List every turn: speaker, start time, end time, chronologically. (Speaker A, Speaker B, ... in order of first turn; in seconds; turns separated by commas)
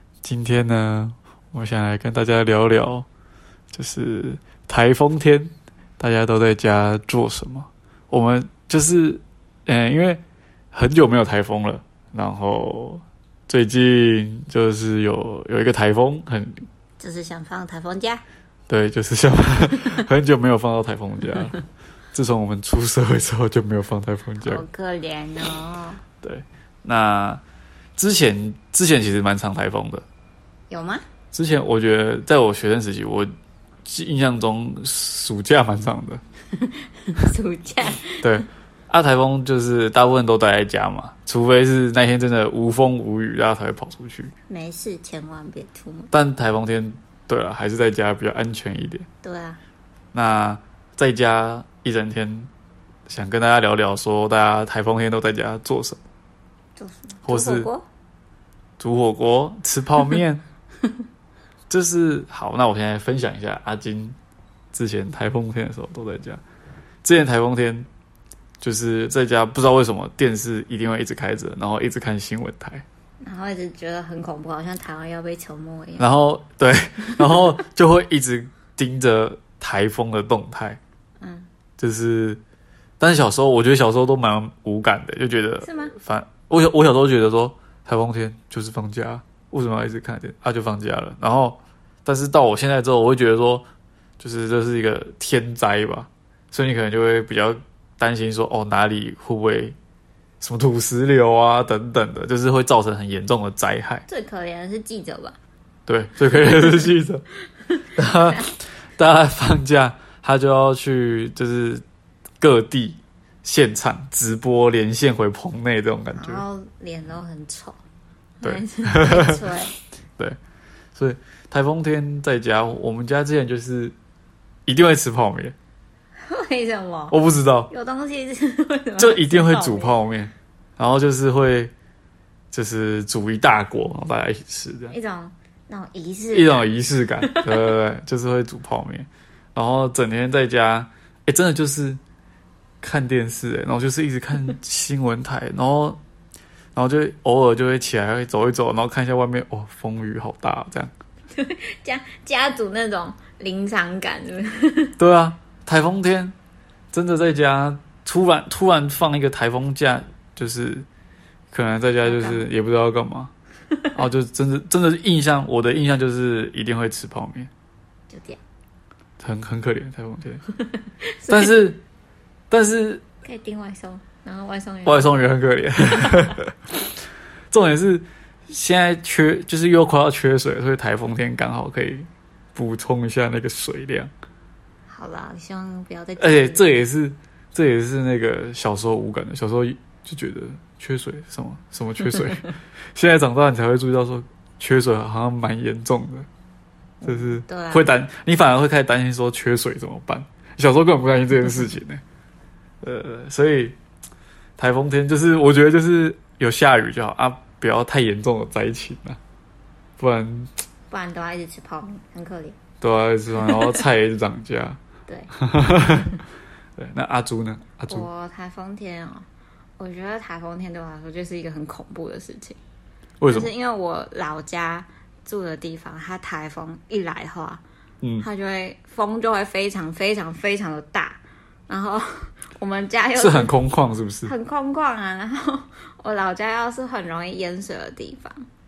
Speaker A: 0.2-3.1, Speaker A: 3.7-10.2, Speaker A: 10.7-16.6, Speaker B: 17.0-18.2, Speaker A: 18.7-21.6, Speaker A: 22.1-24.6, Speaker B: 24.4-26.0, Speaker A: 26.2-27.4, Speaker A: 28.0-30.1, Speaker B: 30.7-31.0, Speaker A: 31.3-33.3, Speaker A: 33.9-36.2, Speaker B: 36.6-38.4, Speaker A: 38.2-44.3, Speaker B: 44.5-46.1, Speaker A: 46.1-49.1, Speaker B: 49.2-49.6, Speaker A: 50.1-52.5, Speaker A: 53.1-56.0, Speaker B: 56.8-57.9, Speaker A: 57.3-57.7, Speaker A: 58.8-60.4, Speaker A: 61.7-64.2, Speaker A: 64.7-66.4, Speaker A: 67.0-67.9, Speaker A: 68.6-72.8, Speaker B: 73.2-76.1, Speaker A: 76.0-80.8, Speaker B: 81.2-81.5, Speaker A: 81.8-82.4, Speaker A: 83.0-93.7, Speaker B: 85.6-86.0, Speaker A: 94.2-99.8, Speaker A: 100.4-104.0, Speaker B: 104.1-105.4, Speaker A: 105.9-107.2, Speaker A: 108.0-111.8, Speaker A: 112.4-116.4, Speaker B: 116.1-117.8, Speaker B: 118.4-119.7, Speaker A: 118.4-119.4, Speaker A: 121.0-124.0, Speaker A: 124.7-125.5, Speaker B: 126.2-127.2, Speaker A: 127.1-127.7, Speaker B: 127.7-130.0, Speaker A: 129.0-131.7, Speaker A: 132.5-134.9, Speaker B: 134.9-137.8, Speaker A: 136.3-142.0, Speaker A: 142.8-146.0, Speaker A: 146.8-150.9, Speaker B: 151.3-155.0, Speaker A: 155.0-156.3, Speaker A: 156.9-160.9, Speaker A: 161.5-163.3, Speaker B: 162.0-162.5, Speaker B: 163.7-164.0, Speaker A: 163.9-167.5, Speaker B: 168.1-168.4, Speaker A: 169.2-170.4, Speaker B: 170.6-171.6, Speaker A: 171.3-171.8, Speaker A: 172.5-173.0, Speaker B: 173.2-175.3, Speaker A: 174.9-176.5, Speaker B: 176.0-176.3, Speaker A: 177.5-184.1, Speaker B: 184.9-186.8, Speaker A: 186.2-196.3, Speaker B: 197.0-197.9, Speaker A: 197.1-202.0, Speaker A: 202.8-203.8, Speaker A: 204.6-209.2, Speaker A: 210.0-210.5, Speaker B: 210.9-212.6, Speaker A: 212.8-214.8, Speaker B: 213.4-213.7, Speaker A: 215.3-216.2, Speaker A: 216.8-218.1, Speaker B: 217.9-219.3, Speaker B: 219.8-222.6, Speaker A: 223.2-223.5, Speaker B: 223.3-227.6, Speaker A: 228.0-228.3, Speaker B: 228.2-233.6, Speaker A: 233.2-234.3, Speaker B: 234.2-238.4